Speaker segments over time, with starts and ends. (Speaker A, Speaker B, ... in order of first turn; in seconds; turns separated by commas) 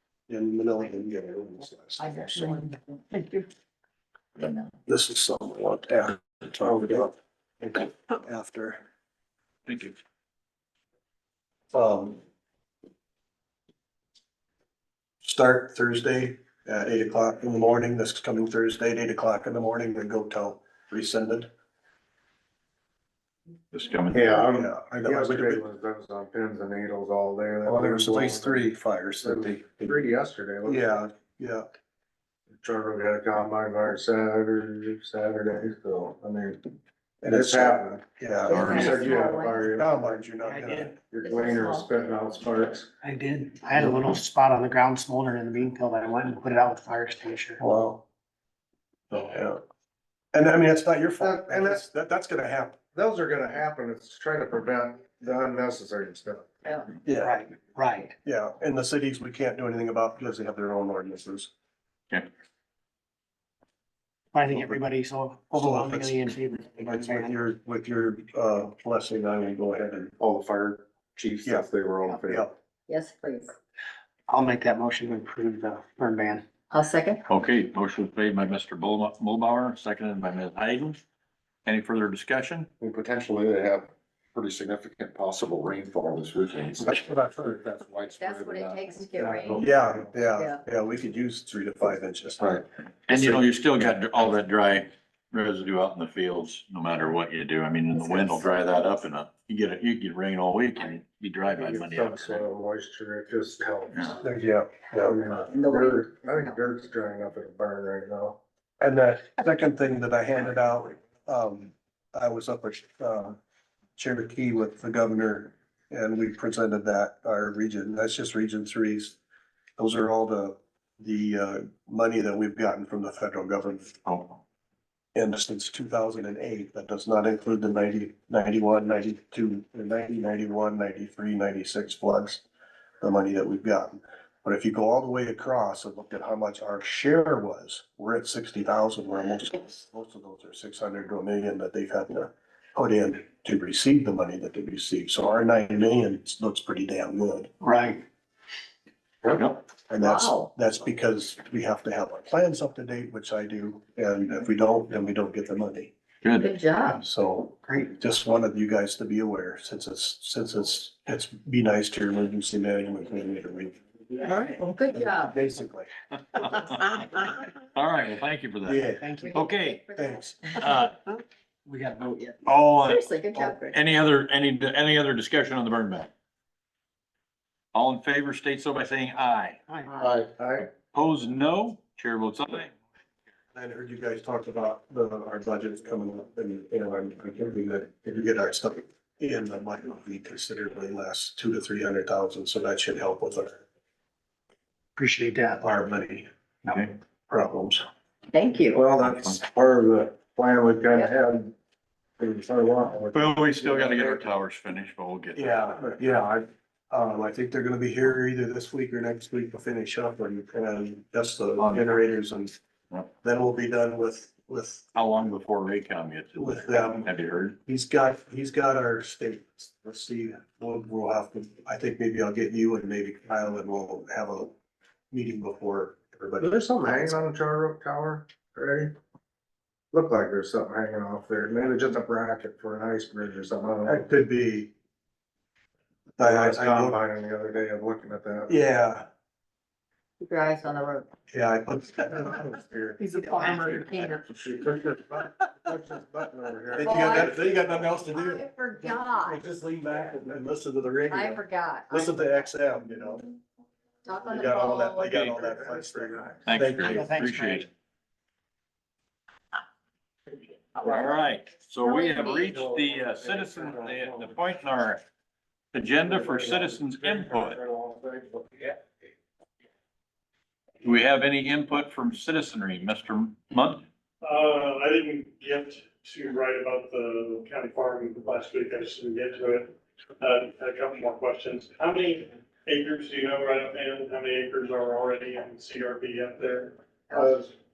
Speaker A: 0.3-2.5, Speaker B: 2.0-3.5, Speaker B: 4.4-4.7, Speaker A: 4.9-8.8, Speaker C: 9.7-9.9, Speaker A: 11.7-12.2, Speaker A: 15.2-21.5, Speaker C: 23.7-24.3, Speaker D: 24.1-28.7, Speaker A: 24.4-25.6, Speaker A: 27.6-29.9, Speaker D: 29.2-31.1, Speaker A: 30.6-31.7, Speaker D: 32.6-36.7, Speaker A: 37.2-39.1, Speaker D: 37.3-38.0, Speaker B: 38.5-39.9, Speaker C: 38.5-39.0, Speaker D: 38.7-40.3, Speaker A: 39.7-41.0, Speaker E: 40.4-40.9, Speaker D: 41.0-42.9, Speaker B: 41.2-42.0, Speaker E: 43.0-47.6, Speaker A: 47.6-48.0, Speaker A: 49.1-49.6, Speaker A: 50.3-52.8, Speaker D: 51.2-51.8, Speaker D: 52.9-56.5, Speaker A: 57.0-57.5, Speaker E: 57.2-58.1, Speaker A: 58.2-61.5, Speaker E: 64.3-67.4, Speaker A: 64.5-64.8, Speaker A: 65.5-70.1, Speaker F: 70.5-70.8, Speaker A: 72.2-72.5, Speaker B: 72.9-73.5, Speaker E: 74.3-76.4, Speaker B: 76.7-77.2, Speaker C: 77.3-81.0, Speaker C: 81.7-82.7, Speaker F: 82.8-89.7, Speaker A: 86.8-87.6, Speaker B: 88.1-89.6, Speaker A: 89.3-92.6, Speaker B: 90.3-90.6, Speaker F: 92.4-93.2, Speaker C: 93.1-102.4, Speaker D: 101.5-104.2, Speaker A: 104.2-105.2, Speaker D: 105.0-108.4, Speaker B: 105.5-106.5, Speaker A: 108.8-113.4, Speaker A: 114.0-119.2, Speaker A: 119.8-124.0, Speaker C: 124.0-124.4, Speaker A: 125.1-132.4, Speaker A: 133.0-147.5, Speaker E: 147.6-148.0, Speaker C: 149.3-149.6, Speaker A: 149.9-155.9, Speaker B: 150.0-150.4, Speaker C: 156.2-156.5, Speaker B: 156.4-157.0, Speaker A: 156.9-163.8, Speaker E: 157.6-158.0, Speaker B: 164.2-165.3, Speaker A: 164.9-165.9, Speaker C: 166.3-167.2, Speaker B: 166.4-167.4, Speaker C: 167.7-169.8, Speaker A: 168.6-169.4, Speaker E: 168.9-169.3, Speaker B: 169.1-170.6, Speaker A: 169.9-170.5, Speaker C: 170.6-170.9, Speaker E: 171.7-172.4, Speaker C: 172.4-173.1, Speaker B: 172.8-173.8, Speaker C: 173.7-176.1, Speaker C: 177.7-179.6, Speaker E: 179.7-180.0, Speaker B: 179.9-180.2, Speaker F: 180.0-180.3, Speaker D: 180.3-180.7, Speaker C: 180.6-182.7, Speaker A: 183.5-193.6, Speaker E: 195.0-195.6, Speaker A: 195.6-197.8, Speaker B: 198.3-198.8, Speaker D: 198.7-201.5, Speaker C: 199.0-199.4, Speaker D: 202.2-204.3, Speaker C: 203.1-205.7, Speaker A: 205.3-212.5, Speaker C: 211.6-211.9, Speaker A: 213.2-214.8, Speaker C: 214.9-217.6, Speaker A: 216.3-217.1, Speaker A: 217.7-224.5, Speaker A: 225.1-227.1, Speaker D: 226.4-228.9, Speaker D: 229.9-234.1, Speaker A: 233.8-234.7, Speaker A: 236.2-237.0, Speaker D: 236.2-238.6, Speaker A: 238.5-239.1, Speaker B: 240.2-241.1, Speaker A: 241.3-242.6, Speaker D: 242.4-242.9, Speaker B: 243.0-244.3, Speaker C: 243.3-244.4, Speaker A: 244.8-245.2, Speaker D: 245.6-246.9, Speaker A: 246.8-253.2, Speaker B: 246.8-249.4, Speaker B: 251.1-252.4, Speaker B: 254.0-255.4, Speaker A: 254.3-257.0, Speaker C: 255.1-255.3, Speaker D: 255.6-256.4, Speaker C: 256.5-257.7, Speaker E: 256.8-257.7, Speaker C: 260.8-265.0, Speaker B: 261.8-262.6, Speaker D: 262.4-264.4, Speaker C: 265.7-267.6, Speaker D: 266.0-268.8, Speaker C: 270.8-273.8, Speaker G: 274.2-286.8, Speaker D: 287.1-287.5